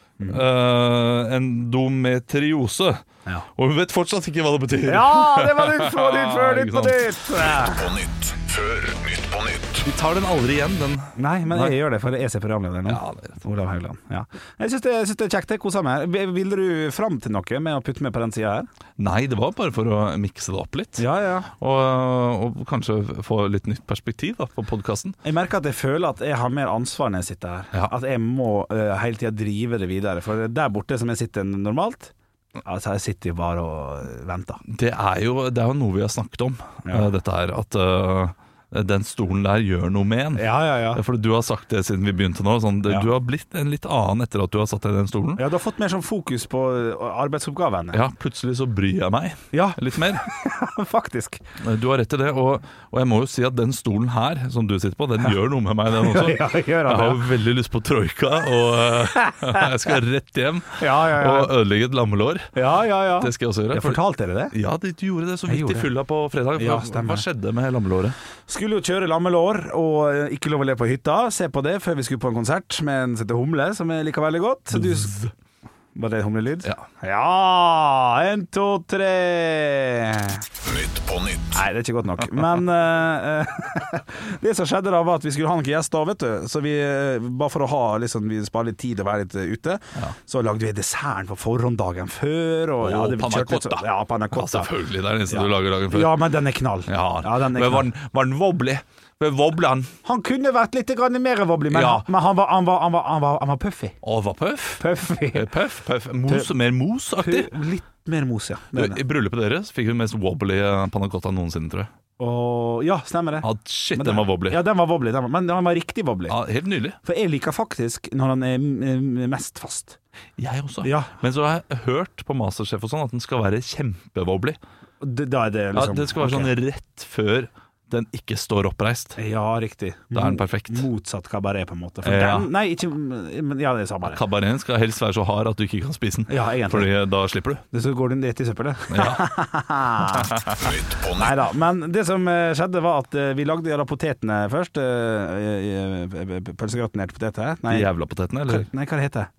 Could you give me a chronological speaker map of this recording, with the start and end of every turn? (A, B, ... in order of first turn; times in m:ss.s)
0:00.2-0:00.4 A
0:00.3-0:03.0 B
0:03.6-0:07.1 B
0:04.8-0:07.9 A
0:07.6-0:09.8 C
0:09.8-0:11.8 B
0:11.2-0:18.7 A
0:12.9-0:13.4 B
0:19.0-0:21.1 B
0:21.0-0:21.5 A
0:21.6-0:25.2 B
0:25.2-0:34.6 A
0:34.7-0:45.4 B
0:40.4-0:41.0 A
0:45.4-0:48.0 A
0:47.9-0:50.2 B
0:49.5-0:51.4 A
0:51.6-1:02.5 B
0:55.9-0:57.2 A
0:59.2-0:59.7 A
1:00.8-1:01.5 A
1:02.6-1:04.6 A
1:03.2-1:04.0 B
1:04.5-1:08.2 B
1:05.5-1:05.9 A
1:06.6-1:07.3 A
1:08.5-1:15.1 A
1:14.7-1:15.3 B
1:16.0-1:20.4 A
1:20.6-1:21.6 C
1:21.5-1:34.7 A
1:32.8-1:36.2 B
1:35.3-1:37.9 A
1:36.9-1:39.9 B
1:40.0-1:44.0 A
1:41.7-1:42.1 B
1:44.0-1:47.5 B
1:44.8-1:45.5 A
1:47.2-1:49.0 A
1:48.7-1:51.9 B
1:52.2-1:56.4 A
1:53.4-1:54.6 B
1:56.3-1:57.0 B
1:57.0-2:00.0 A
2:00.4-2:04.6 B
2:00.8-2:01.1 A
2:05.0-2:06.5 A
2:05.7-2:09.2 B
2:09.2-2:14.2 A
2:10.1-2:10.9 B
2:12.0-2:12.5 B
2:14.1-2:17.6 B
2:16.3-2:16.9 A
2:17.7-2:20.4 A
2:18.9-2:19.2 B
2:20.1-2:20.5 B
2:20.6-2:21.4 C
2:21.2-2:27.9 A
2:27.7-2:28.7 B
2:28.5-2:29.3 A